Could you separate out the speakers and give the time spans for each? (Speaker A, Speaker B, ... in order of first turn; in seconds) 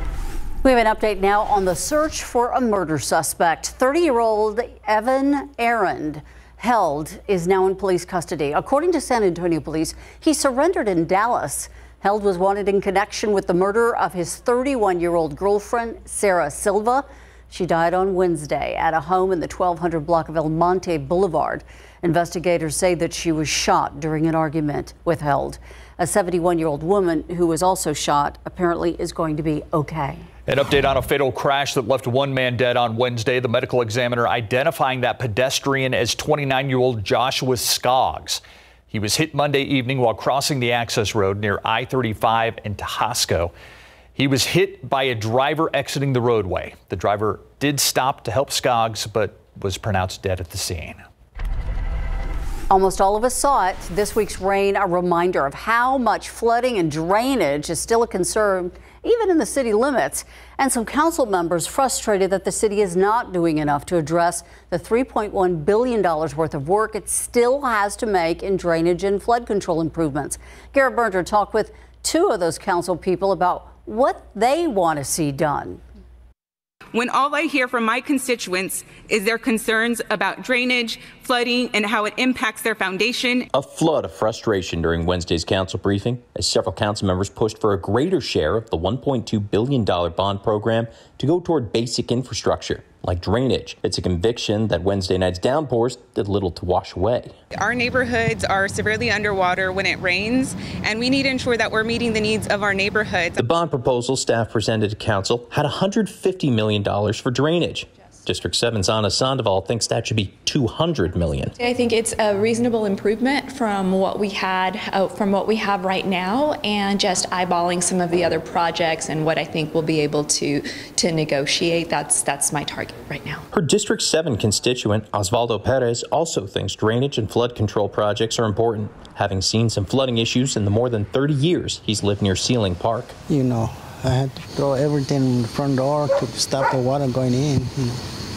Speaker A: 0.6-30.2, 52.7-75.8
Speaker B: 30.5-43.5, 44.1-51.0
Speaker C: 76.9-83.5, 97.5-103.4
Speaker D: 83.5-97.3, 103.4-111.5, 123.5-133.2
Speaker E: 111.6-123.4
Speaker F: 133.3-138.0